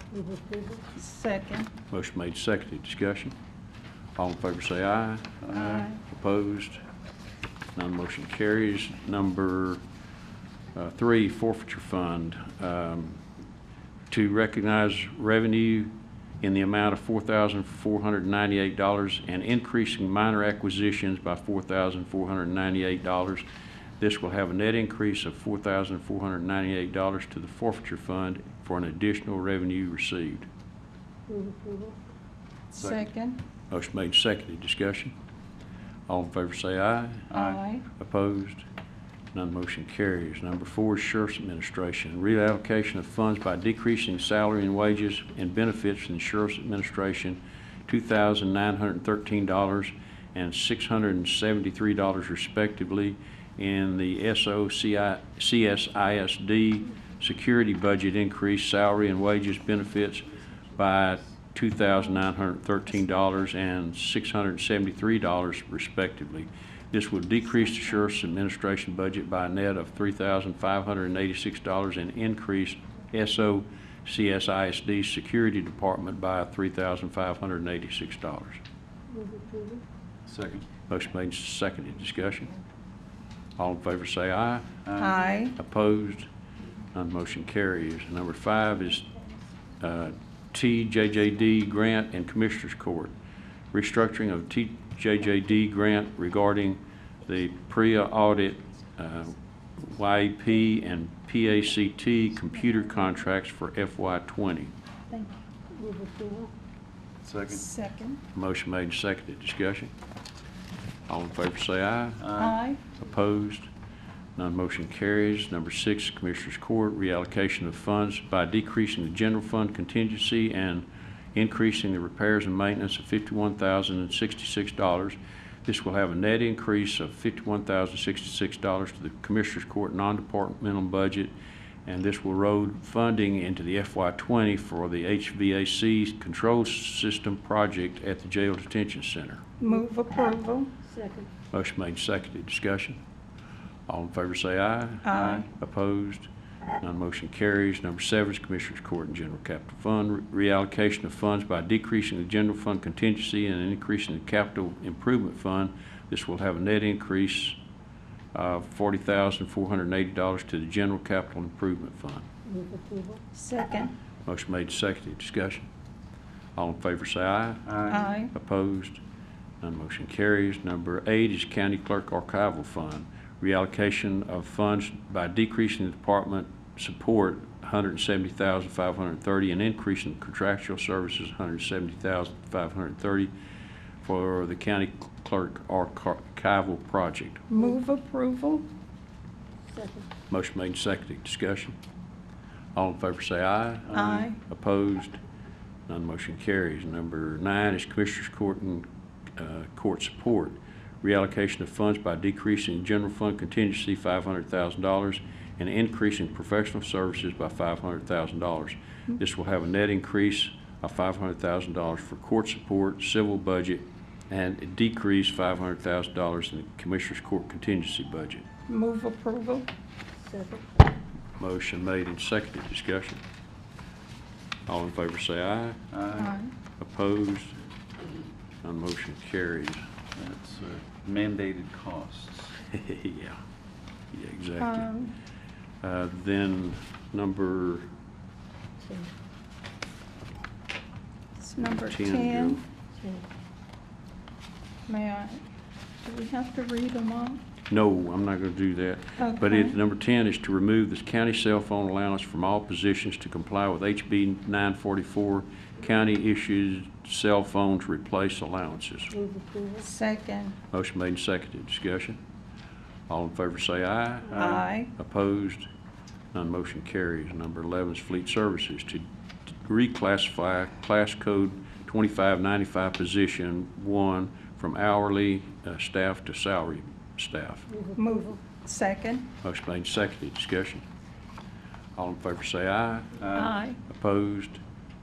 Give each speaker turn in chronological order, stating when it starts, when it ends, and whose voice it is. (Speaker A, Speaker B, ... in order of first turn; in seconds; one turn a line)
Speaker A: 0.1-0.8
Speaker B: 0.9-1.7
Speaker C: 1.9-3.3
Speaker C: 4.2-6.8
Speaker B: 5.5-6.0
Speaker C: 7.7-9.8
Speaker C: 10.7-13.2
Speaker C: 14.1-23.4
Speaker C: 24.0-30.5
Speaker A: 31.3-32.0
Speaker B: 32.7-33.4
Speaker C: 33.7-35.1
Speaker C: 36.1-37.3
Speaker D: 37.3-37.6
Speaker B: 37.3-37.8
Speaker C: 37.9-38.6
Speaker C: 39.3-78.6
Speaker A: 79.1-79.8
Speaker D: 80.2-80.6
Speaker C: 80.9-82.5
Speaker C: 83.6-84.7
Speaker D: 84.8-85.2
Speaker B: 85.0-85.5
Speaker C: 85.5-86.3
Speaker C: 86.9-89.1
Speaker C: 89.8-93.1
Speaker C: 93.7-104.7
Speaker B: 105.1-105.3
Speaker A: 105.7-106.5
Speaker D: 107.2-107.6
Speaker B: 107.5-108.2
Speaker C: 108.3-109.9
Speaker C: 111.1-112.3
Speaker D: 112.2-112.6
Speaker B: 112.4-112.8
Speaker C: 112.9-113.7
Speaker C: 114.3-131.3
Speaker C: 131.8-139.4
Speaker B: 139.6-140.8
Speaker A: 140.9-141.3
Speaker C: 141.5-143.0
Speaker C: 143.9-146.3
Speaker B: 145.0-145.5
Speaker D: 145.2-145.4
Speaker C: 146.8-157.6
Speaker C: 158.3-162.2
Speaker A: 162.5-163.2
Speaker B: 163.3-163.9
Speaker C: 164.2-165.7
Speaker C: 166.6-169.0
Speaker D: 167.7-168.1
Speaker B: 167.9-168.3
Speaker C: 169.6-183.3
Speaker C: 184.0-187.4
Speaker B: 187.5-188.7
Speaker A: 189.7-190.1
Speaker C: 190.3-191.8
Speaker C: 192.7-195.2
Speaker B: 193.9-194.4
Speaker C: 195.9-218.5
Speaker B: 218.7-219.7
Speaker A: 220.3-220.6
Speaker C: 221.4-223.2
Speaker C: 224.7-225.8
Speaker D: 225.9-226.4
Speaker B: 226.1-226.5
Speaker C: 226.8-227.6
Speaker C: 228.6-229.8
Speaker D: 230.1-232.5
Speaker C: 232.7-233.4
Speaker C: 234.1-234.9
Speaker B: 234.6-235.1
Speaker C: 235.8-237.9
Speaker A: 238.8-239.1
Speaker B: 241.4-242.6
Speaker C: 241.6-242.6
Speaker B: 244.9-245.4
Speaker B: 246.0-247.4
Speaker C: 247.7-259.1
Speaker B: 249.2-249.8
Speaker A: 259.1-259.8
Speaker B: 259.8-260.5
Speaker C: 260.7-262.2
Speaker C: 263.1-265.7
Speaker B: 264.3-264.9
Speaker C: 266.3-277.7
Speaker B: 277.9-279.3
Speaker C: 279.4-280.8
Speaker C: 282.0-283.2
Speaker D: 283.2-283.5
Speaker B: 283.3-283.8
Speaker C: 283.8-284.6